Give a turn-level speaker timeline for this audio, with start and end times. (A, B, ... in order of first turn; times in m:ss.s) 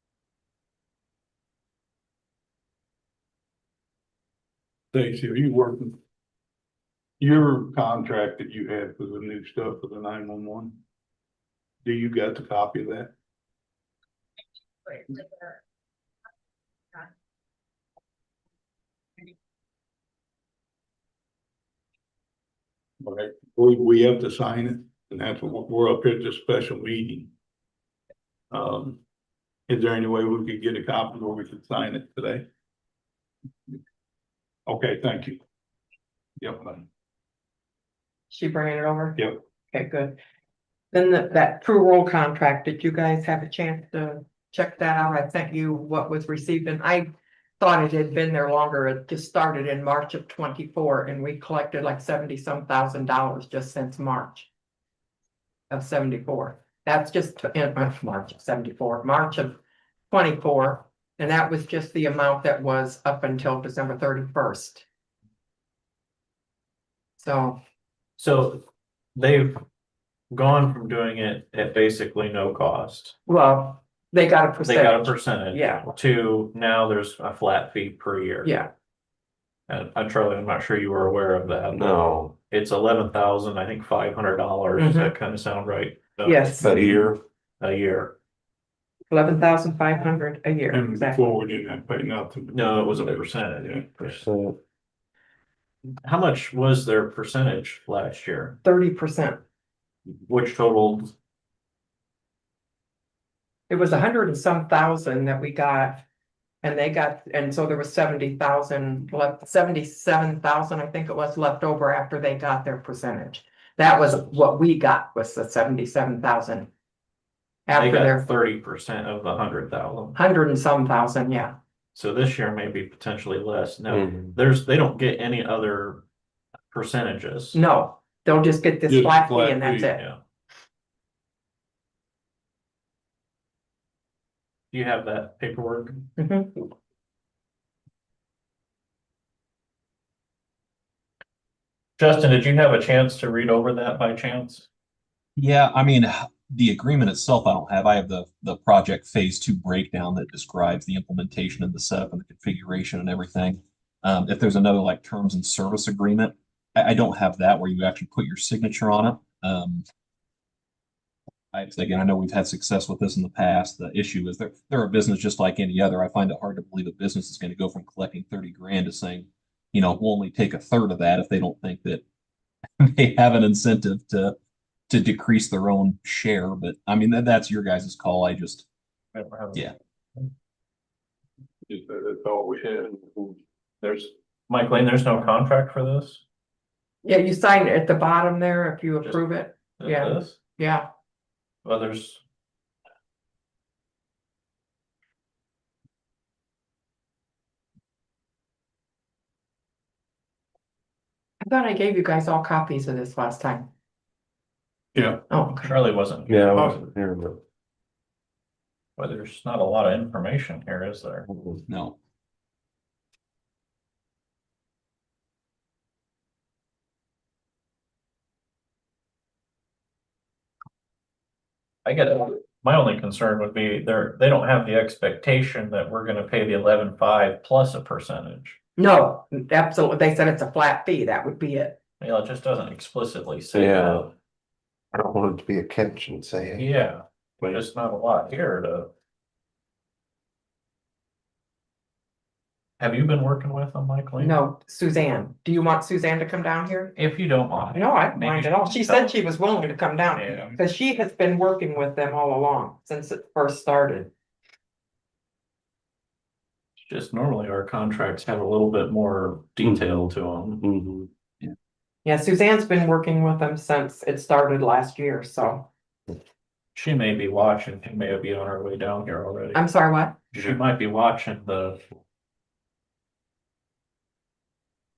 0:04.9-0:06.0 A
0:07.2-0:10.8 A
0:11.8-0:13.1 A
0:14.9-0:15.5 B
0:23.0-0:27.3 A
0:28.5-0:29.0 A
0:29.7-0:32.5 A
0:34.7-0:35.4 A
0:36.4-0:36.9 A
0:38.3-0:40.2 C
0:40.9-0:47.1 C
0:47.6-0:54.5 C
0:55.7-0:59.6 C
1:00.1-1:04.9 C
1:07.2-1:07.6 C
1:08.2-1:08.6 D
1:09.2-1:09.6 D
1:10.3-1:13.2 D
1:13.3-1:15.9 C
1:14.6-1:18.5 D
1:18.4-1:18.7 C
1:19.7-1:26.5 D
1:21.7-1:22.2 B
1:24.8-1:25.1 C
1:26.2-1:26.7 C
1:26.6-1:27.2 B
1:27.6-1:28.2 D
1:29.1-1:31.3 C
1:30.7-1:33.8 A
1:32.5-1:34.2 D
1:34.1-1:34.6 B
1:36.0-1:38.6 D
1:38.6-1:39.4 C
1:40.3-1:41.1 D
1:43.7-1:46.0 C
1:46.6-1:56.7 C
1:57.7-1:58.3 C
1:57.7-2:00.2 D
2:00.2-2:01.6 C
2:02.0-2:06.0 D
2:06.7-2:07.6 D
2:07.5-2:10.0 C
2:08.9-2:09.9 A
2:14.7-2:16.0 D
2:16.2-2:16.7 C
2:22.0-2:24.7 D
2:25.4-2:39.8 E
2:41.5-2:52.0 E
2:52.8-2:54.4 E
2:54.9-2:58.7 E
2:59.1-3:00.3 D
3:01.7-3:02.7 A
3:04.5-3:06.2 D
3:07.0-3:10.9 C
3:09.0-3:10.4 D
3:11.6-3:12.2 D
3:21.4-3:23.7 C
3:25.0-3:25.2 A
3:25.3-3:25.8 C
3:25.6-3:26.8 D
3:26.3-3:27.3 B
3:29.0-3:31.3 D
3:31.7-3:32.0 E
3:41.8-3:48.6 D
3:48.8-3:51.8 C
3:52.0-3:54.1 D
3:53.6-3:54.1 B
3:55.0-3:56.6 B
3:56.6-3:58.9 D
4:02.8-4:04.4 D
4:04.2-4:06.9 C
4:07.0-4:09.1 D
4:07.7-4:14.1 C
4:10.1-4:10.6 D
4:16.8-4:20.6 D
4:20.6-4:21.1 B
4:22.0-4:25.7 C
4:26.8-4:29.6 D
4:29.6-4:30.2 C
4:30.3-4:31.8 D